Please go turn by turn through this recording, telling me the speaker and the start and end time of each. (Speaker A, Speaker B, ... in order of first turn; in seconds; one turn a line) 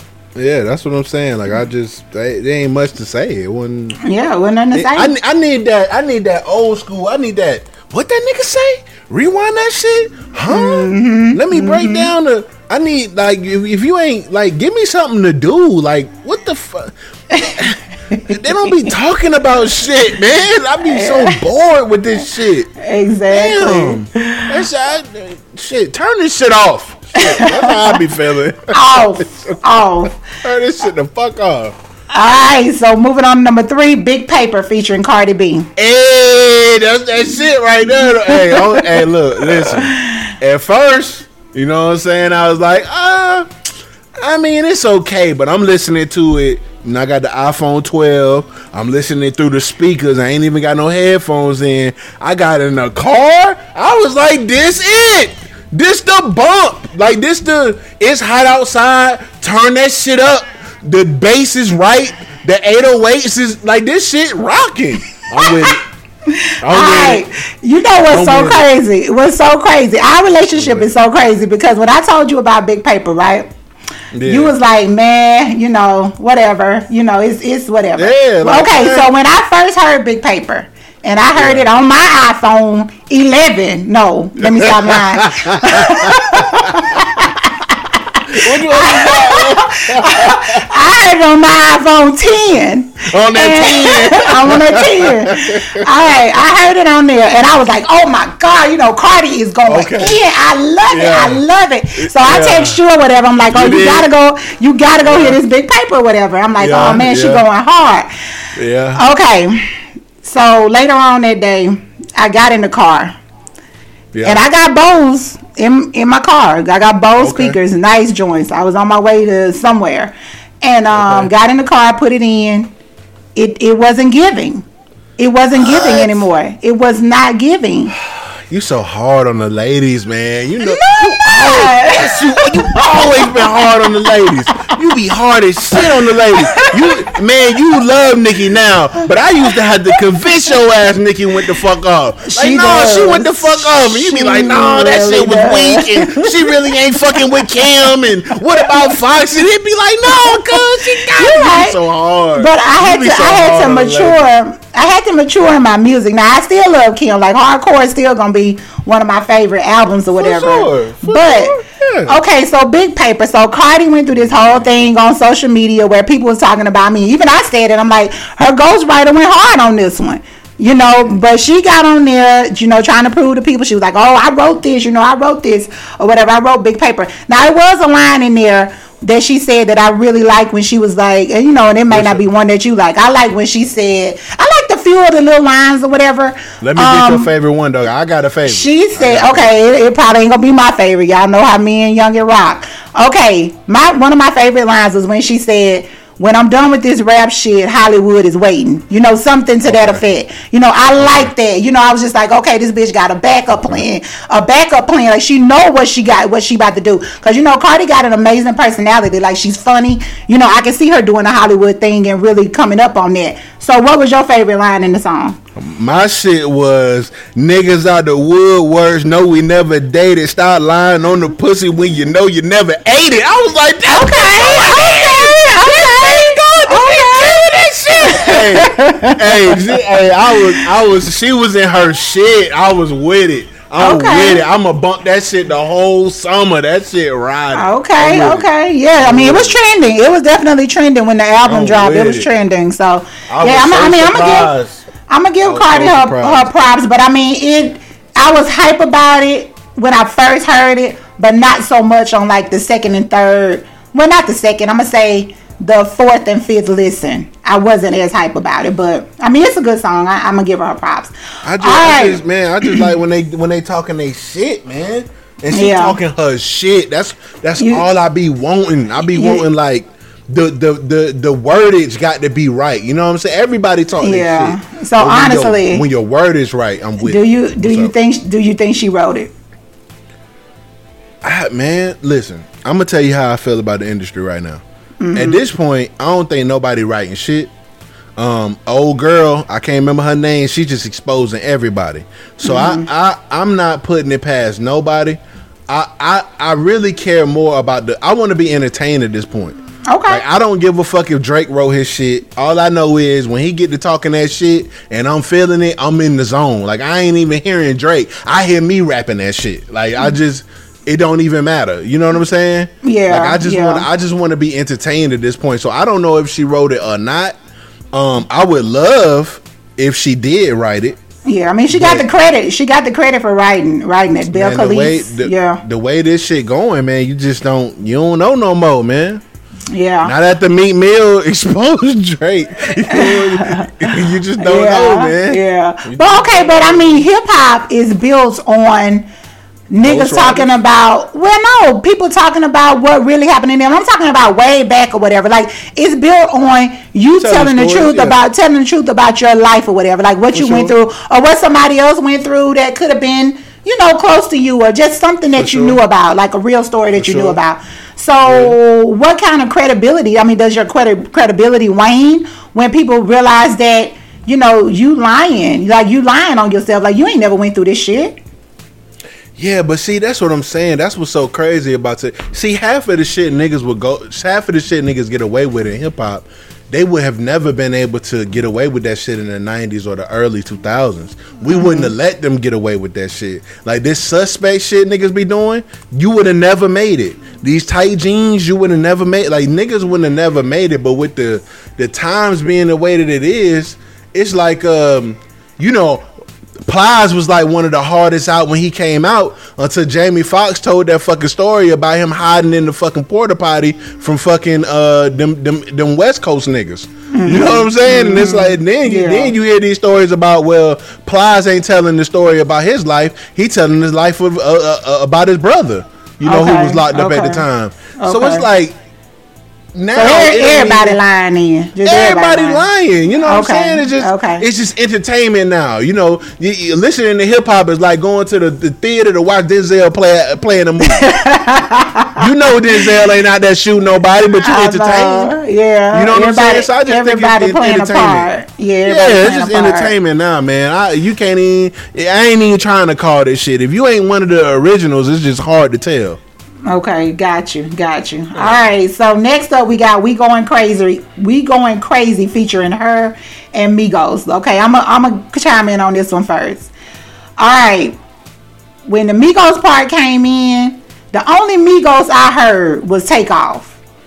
Speaker A: 0.3-4.0
Speaker B: 4.0-5.1
Speaker A: 4.7-22.7
Speaker B: 10.5-12.1
Speaker B: 17.3-18.7
Speaker B: 20.9-21.4
Speaker B: 22.8-24.5
Speaker A: 23.3-29.6
Speaker B: 27.2-28.0
Speaker B: 28.7-30.2
Speaker A: 30.3-31.8
Speaker B: 32.1-35.7
Speaker A: 35.8-43.5
Speaker B: 38.3-40.3
Speaker A: 44.2-65.8
Speaker B: 65.4-65.7
Speaker B: 66.3-73.5
Speaker A: 66.6-67.3
Speaker A: 68.1-68.7
Speaker A: 70.5-70.9
Speaker A: 74.1-74.5
Speaker B: 74.2-108.1
Speaker A: 78.0-79.1
Speaker A: 81.3-81.7
Speaker A: 84.4-87.0
Speaker A: 88.3-90.7
Speaker A: 93.1-96.3
Speaker A: 99.7-100.2
Speaker A: 100.9-101.4
Speaker A: 102.0-102.8
Speaker A: 103.5-104.1
Speaker A: 105.0-105.4
Speaker A: 106.6-107.4
Speaker A: 108.6-109.0
Speaker B: 109.0-109.7
Speaker B: 110.2-113.2
Speaker A: 114.1-114.4
Speaker B: 114.2-122.7
Speaker A: 117.2-117.6
Speaker A: 120.9-121.3
Speaker B: 123.4-124.7
Speaker B: 125.2-128.0
Speaker A: 125.6-126.3
Speaker A: 128.1-154.3
Speaker B: 130.6-134.0
Speaker B: 136.5-137.1
Speaker B: 142.2-149.0
Speaker B: 150.1-151.8
Speaker B: 152.4-161.6
Speaker A: 160.2-162.2
Speaker B: 162.1-187.3
Speaker A: 181.9-182.2
Speaker A: 186.6-189.5
Speaker B: 188.5-215.4
Speaker A: 199.7-200.0
Speaker A: 201.0-201.3
Speaker A: 215.6-238.5
Speaker B: 223.9-230.6
Speaker B: 233.8-234.4
Speaker B: 237.5-244.5
Speaker A: 239.0-239.6
Speaker A: 241.5-242.3
Speaker A: 243.3-244.8
Speaker B: 245.1-262.9
Speaker A: 245.4-246.5
Speaker A: 261.4-277.9
Speaker B: 265.5-266.0
Speaker B: 267.6-267.9
Speaker B: 269.1-269.4
Speaker B: 274.0-275.8
Speaker B: 277.0-279.3
Speaker A: 281.2-284.6
Speaker B: 285.0-285.4
Speaker A: 285.1-287.5
Speaker A: 288.2-299.6
Speaker B: 292.4-292.9
Speaker B: 299.9-300.2
Speaker A: 300.1-317.4
Speaker B: 312.8-313.9
Speaker A: 317.9-321.0
Speaker B: 321.2-325.6
Speaker A: 321.7-322.1
Speaker A: 324.3-329.2
Speaker B: 329.7-330.1
Speaker A: 330.0-337.1
Speaker B: 332.9-339.1
Speaker B: 339.7-368.2
Speaker A: 339.8-340.5
Speaker A: 347.1-348.2
Speaker A: 350.3-350.8
Speaker A: 355.4-355.8
Speaker A: 357.0-357.4
Speaker A: 358.2-358.6
Speaker A: 369.4-396.1
Speaker B: 381.5-381.9
Speaker A: 396.7-418.8
Speaker B: 407.1-409.3
Speaker B: 416.2-417.4
Speaker B: 418.0-418.5
Speaker A: 419.8-421.0
Speaker B: 419.9-422.6
Speaker A: 421.8-431.1
Speaker B: 423.2-424.4
Speaker B: 430.9-432.3
Speaker A: 432.2-435.4
Speaker B: 434.4-439.9
Speaker A: 435.9-438.3
Speaker A: 438.9-446.2
Speaker B: 446.7-456.7
Speaker A: 448.4-448.6
Speaker B: 457.4-458.0
Speaker B: 458.9-463.8